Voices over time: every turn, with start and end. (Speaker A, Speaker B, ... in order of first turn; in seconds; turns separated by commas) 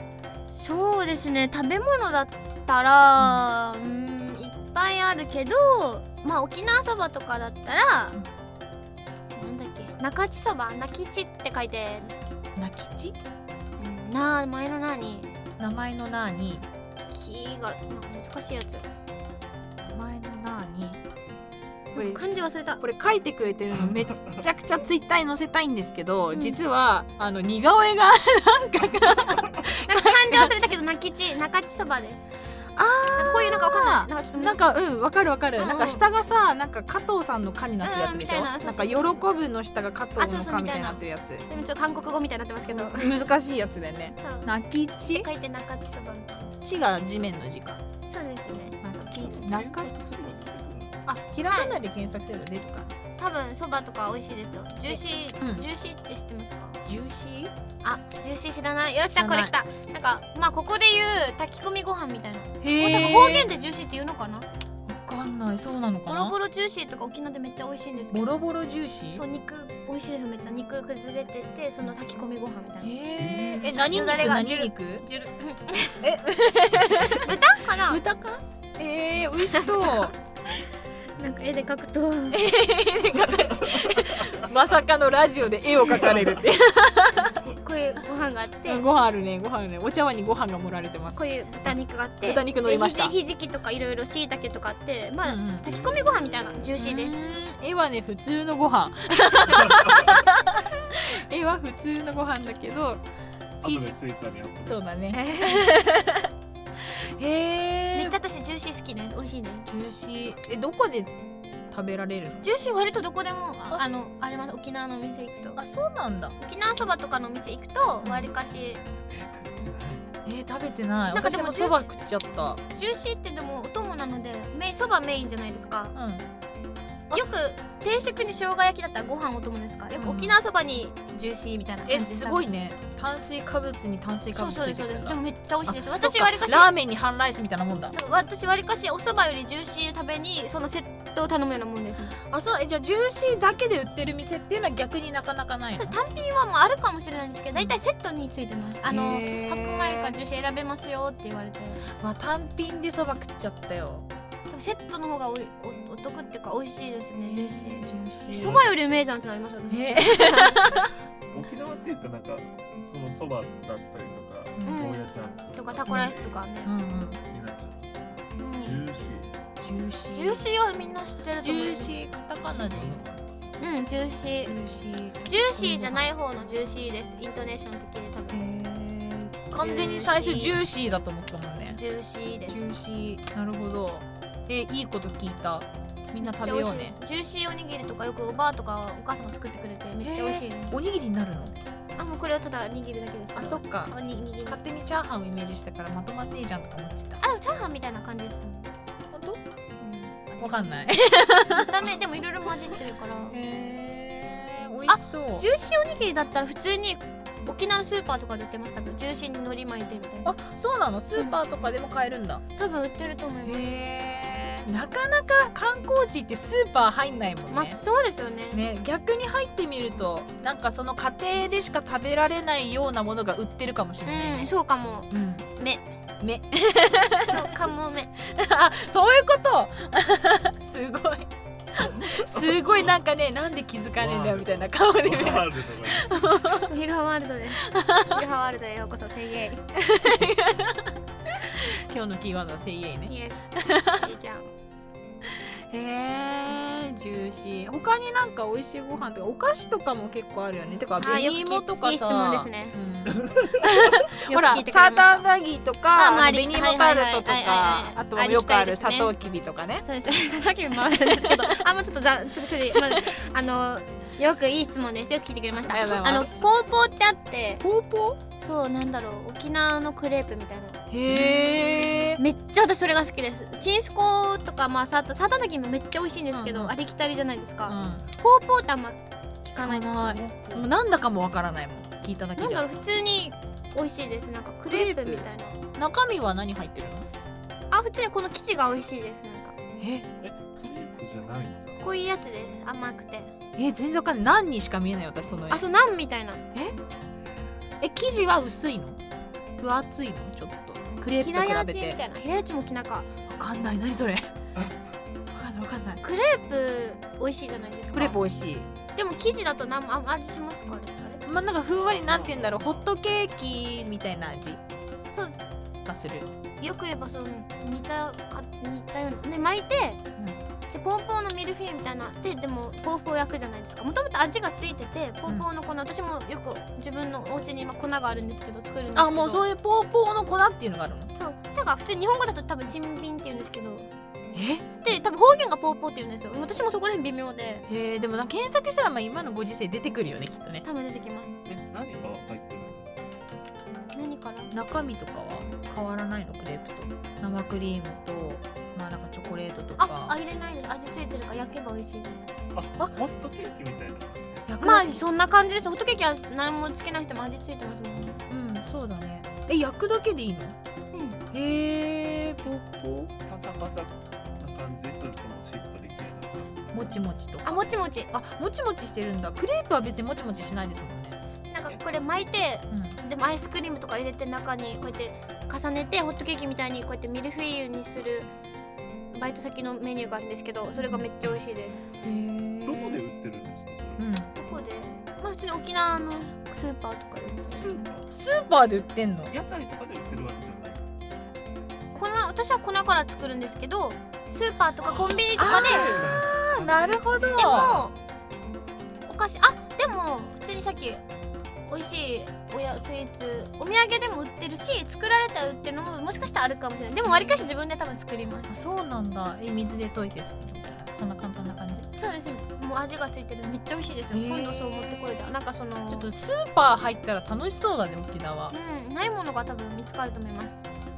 Speaker A: 0.5-8.2, Speaker A: 9.3-12.1, Speaker B: 12.6-13.2, Speaker A: 13.8-15.3, Speaker B: 15.6-16.7, Speaker A: 17.1-18.9, Speaker B: 19.8-21.0, Speaker B: 21.9-30.5, Speaker A: 21.9-22.8, Speaker A: 26.3-26.6, Speaker A: 29.8-32.2, Speaker B: 32.7-41.4, Speaker A: 33.1-34.6, Speaker A: 35.6-36.0, Speaker A: 37.8-39.2, Speaker A: 40.2-43.1, Speaker B: 42.7-45.3, Speaker A: 44.2-44.5, Speaker A: 45.0-46.5, Speaker B: 46.6-47.8, Speaker A: 48.1-48.8, Speaker B: 48.8-49.9, Speaker C: 49.2-51.0, Speaker B: 51.0-52.9, Speaker A: 51.5-51.8, Speaker A: 53.2-56.8, Speaker B: 54.9-55.6, Speaker B: 56.9-57.5, Speaker A: 57.8-64.5, Speaker B: 59.1-59.5, Speaker B: 62.6-63.5, Speaker B: 64.8-66.3, Speaker A: 66.0-68.3, Speaker B: 68.1-69.2, Speaker A: 69.1-76.0, Speaker B: 72.8-75.0, Speaker B: 76.0-80.1, Speaker A: 77.0-78.0, Speaker A: 79.5-82.4, Speaker B: 82.3-87.4, Speaker C: 85.9-86.3, Speaker A: 87.6-88.8, Speaker B: 88.7-93.2, Speaker A: 91.1-97.2, Speaker B: 95.2-95.7, Speaker C: 95.6-96.7, Speaker B: 96.8-103.0, Speaker C: 99.7-100.1, Speaker C: 103.6-105.1, Speaker B: 103.6-104.0, Speaker B: 104.6-108.2, Speaker A: 105.1-105.7, Speaker A: 107.9-109.7, Speaker B: 109.7-111.1, Speaker B: 111.7-112.4, Speaker A: 112.4-115.6, Speaker B: 115.5-116.3, Speaker A: 116.4-118.8, Speaker B: 118.0-118.3, Speaker C: 119.1-120.0, Speaker B: 120.2-122.6, Speaker A: 121.1-121.9, Speaker A: 122.7-125.9, Speaker B: 125.9-126.2, Speaker A: 127.1-132.4, Speaker B: 130.0-130.4, Speaker B: 131.8-137.9, Speaker A: 134.3-136.7, Speaker A: 137.9-142.2, Speaker B: 142.3-146.0, Speaker A: 145.7-151.9, Speaker B: 147.5-147.8, Speaker B: 148.8-150.1, Speaker B: 151.9-154.1, Speaker A: 154.5-160.9, Speaker B: 157.3-158.6, Speaker C: 158.3-158.7, Speaker B: 159.7-160.9, Speaker C: 161.3-166.3, Speaker B: 164.6-164.8, Speaker A: 164.7-166.7, Speaker B: 165.9-167.2, Speaker C: 167.2-169.3, Speaker A: 168.4-168.8, Speaker B: 169.6-170.4, Speaker A: 170.1-171.9, Speaker B: 171.4-173.1, Speaker C: 172.4-173.3, Speaker A: 173.6-174.5, Speaker B: 174.4-176.1, Speaker A: 175.2-178.4, Speaker B: 178.3-181.8, Speaker A: 179.5-180.6, Speaker A: 181.7-182.7, Speaker B: 182.5-187.0, Speaker A: 186.2-190.8, Speaker B: 190.0-191.5, Speaker A: 192.0-194.6, Speaker B: 193.3-193.9, Speaker B: 194.4-197.2, Speaker A: 197.2-198.7, Speaker B: 199.1-199.4, Speaker A: 199.8-200.8, Speaker B: 200.4-201.8, Speaker A: 201.5-203.4, Speaker B: 203.3-205.4, Speaker A: 204.9-210.3, Speaker B: 210.2-212.4, Speaker A: 212.6-213.7, Speaker B: 213.4-217.8, Speaker A: 217.5-218.6, Speaker B: 218.5-224.5, Speaker A: 224.0-225.9, Speaker B: 225.1-225.5, Speaker B: 226.2-227.5, Speaker A: 227.2-228.1, Speaker B: 228.2-236.7, Speaker C: 232.1-232.8, Speaker C: 234.0-236.5, Speaker A: 236.5-239.7, Speaker B: 237.7-238.2, Speaker B: 239.7-241.0, Speaker A: 241.4-241.7, Speaker B: 241.7-244.0, Speaker A: 243.1-244.5, Speaker B: 245.2-259.9, Speaker A: 251.0-252.8, Speaker A: 254.3-255.2, Speaker A: 255.9-259.1, Speaker A: 259.8-267.6, Speaker B: 260.9-261.6, Speaker B: 265.6-266.3, Speaker B: 267.6-268.2, Speaker A: 268.4-280.7, Speaker B: 270.9-272.2, Speaker B: 276.3-276.7, Speaker B: 277.7-278.0, Speaker B: 279.6-282.7, Speaker A: 282.4-285.6, Speaker B: 284.7-287.1, Speaker A: 287.7-289.6, Speaker B: 289.8-290.1, Speaker C: 290.2-292.0, Speaker A: 291.8-293.3, Speaker B: 293.6-295.6, Speaker A: 295.5-296.4, Speaker B: 297.8-299.0, Speaker B: 299.6-302.0, Speaker A: 301.1-303.1, Speaker B: 303.3-304.3, Speaker B: 305.3-306.0, Speaker A: 306.0-308.2, Speaker B: 307.9-308.7, Speaker A: 308.9-311.2, Speaker B: 311.2-314.6, Speaker C: 311.7-312.9, Speaker A: 315.1-315.4, Speaker B: 315.9-316.3, Speaker A: 316.6-320.0, Speaker A: 320.7-329.4, Speaker B: 328.9-331.1, Speaker A: 331.1-333.9, Speaker B: 334.3-334.8, Speaker A: 334.8-337.7, Speaker B: 337.7-340.6, Speaker A: 340.6-341.4, Speaker C: 341.4-343.1, Speaker A: 343.9-344.5, Speaker B: 344.5-350.1, Speaker A: 349.8-352.3, Speaker C: 352.5-354.5, Speaker B: 354.5-355.0, Speaker A: 354.6-358.2, Speaker B: 358.3-360.6, Speaker A: 360.9-361.2, Speaker B: 361.3-363.1, Speaker C: 363.2-367.0, Speaker B: 366.7-371.2, Speaker A: 367.4-368.1, Speaker A: 371.5-378.3, Speaker C: 371.7-372.1, Speaker B: 372.7-373.0, Speaker A: 379.1-381.8, Speaker B: 380.7-381.3, Speaker B: 382.0-383.0, Speaker C: 382.6-384.1, Speaker B: 384.0-384.3, Speaker A: 384.3-387.9, Speaker B: 387.5-389.3, Speaker C: 387.7-388.1, Speaker C: 389.3-390.8, Speaker A: 391.9-396.0, Speaker C: 394.8-397.9, Speaker B: 395.4-397.8, Speaker A: 397.4-398.0, Speaker A: 399.1-401.0, Speaker A: 401.7-408.5, Speaker B: 407.1-407.5, Speaker B: 408.5-411.9, Speaker A: 411.9-416.1, Speaker B: 414.1-415.3, Speaker B: 415.9-418.5, Speaker A: 418.5-420.6